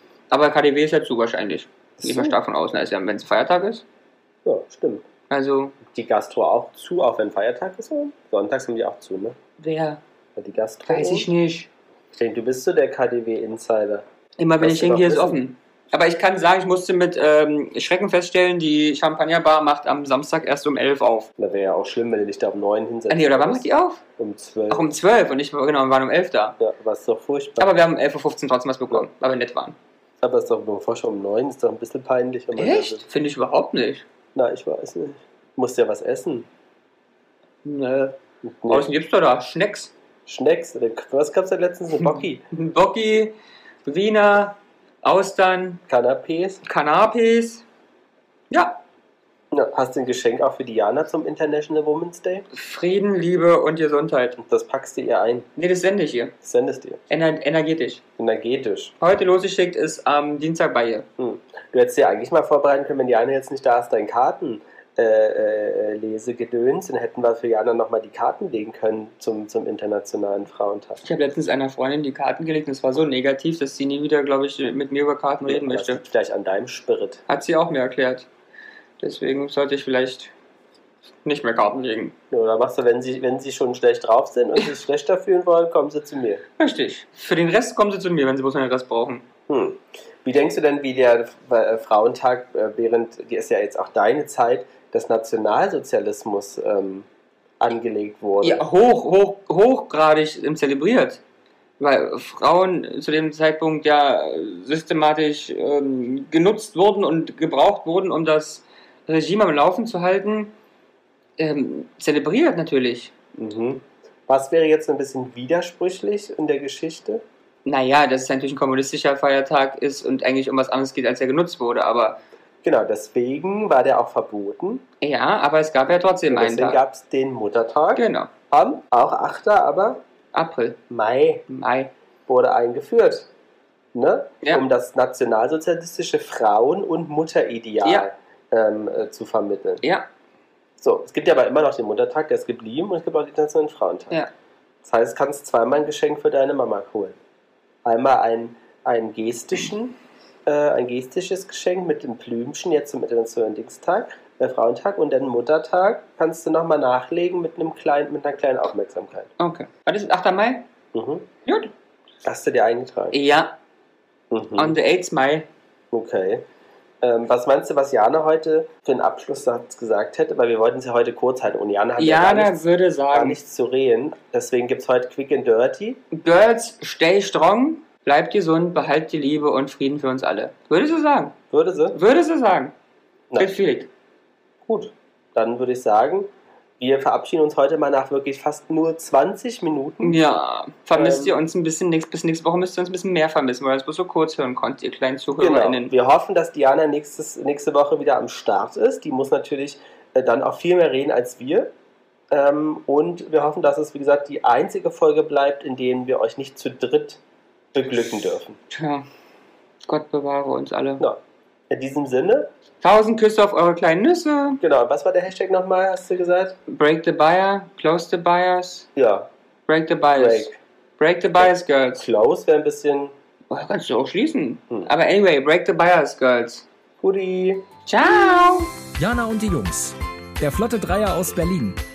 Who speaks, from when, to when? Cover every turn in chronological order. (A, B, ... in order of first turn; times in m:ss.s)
0:00.3-0:03.8 A
0:02.0-0:02.4 B
0:04.4-0:05.0 B
0:05.3-0:05.8 A
0:05.9-0:09.4 B
0:09.6-0:10.0 A
0:10.4-0:11.3 B
0:10.9-0:11.7 A
0:12.2-0:14.0 B
0:14.4-0:21.3 A
0:14.6-0:15.4 B
0:21.4-0:23.7 B
0:23.1-0:24.0 A
0:24.2-0:24.9 B
0:24.7-0:26.6 A
0:26.6-0:27.7 B
0:27.6-0:29.8 A
0:30.2-0:33.0 B
0:32.6-0:34.0 A
0:34.4-0:36.5 B
0:37.6-0:38.2 A
0:38.4-0:38.9 B
0:38.7-0:39.9 A
0:40.3-0:42.4 B
0:42.0-0:43.4 A
0:43.9-0:45.8 A
0:45.9-0:46.6 B
0:46.6-0:47.6 A
0:48.5-0:48.8 A
0:49.5-0:52.4 B
0:52.5-0:54.4 A
0:54.4-0:55.5 B
0:55.6-0:56.3 A
0:56.4-0:57.0 B
0:57.1-0:58.0 A
0:58.2-0:58.9 B
0:59.0-1:01.1 A
1:01.2-1:11.0 B
1:11.0-1:16.0 A
1:15.4-1:17.2 B
1:17.3-1:18.3 A
1:19.0-1:20.3 A
1:21.2-1:22.1 A
1:22.3-1:26.4 B
1:26.6-1:29.2 A
1:29.5-1:37.1 B
1:37.6-1:38.6 B
1:38.4-1:41.2 A
1:41.8-1:50.5 A
1:51.4-1:53.1 A
1:53.4-1:57.2 B
1:57.7-2:02.2 A
2:02.6-2:04.8 B
2:05.0-2:06.8 A
2:06.3-2:10.0 B
2:08.0-2:08.3 A
2:10.3-2:10.8 A
2:10.9-2:11.4 B
2:11.5-2:11.9 A
2:12.3-2:13.3 B
2:13.9-2:19.8 B
2:19.8-2:20.1 A
2:20.8-2:24.2 B
2:24.8-2:27.2 B
2:27.8-2:39.3 B
2:39.4-2:40.7 A
2:40.9-2:41.3 B
2:41.5-2:41.7 A
2:42.2-2:43.2 B
2:43.1-2:43.6 A
2:44.3-2:44.8 B
2:44.6-2:45.5 A
2:45.9-2:46.4 B
2:47.0-2:52.6 B
2:52.0-2:53.4 A
2:53.1-2:56.0 B
2:56.1-3:01.3 A
3:01.5-3:02.0 B
3:01.9-3:02.7 A
3:03.4-3:03.9 A
3:04.7-3:06.3 B
3:06.8-3:10.2 B
3:10.0-3:15.9 A
3:11.0-3:11.4 B
3:15.4-3:21.7 B
3:22.3-3:27.2 B
3:27.7-3:28.6 B
3:28.7-3:29.1 A
3:29.9-3:31.0 A
3:31.7-3:32.5 B
3:32.8-3:34.6 A
3:34.6-3:36.6 B
3:36.7-3:38.9 A
3:39.0-3:39.3 B
3:39.7-3:42.0 A
3:40.2-3:40.6 B
3:41.4-3:43.1 B
3:43.5-3:46.7 A
3:47.0-3:47.7 B
3:47.9-3:48.7 A
3:49.0-3:51.8 C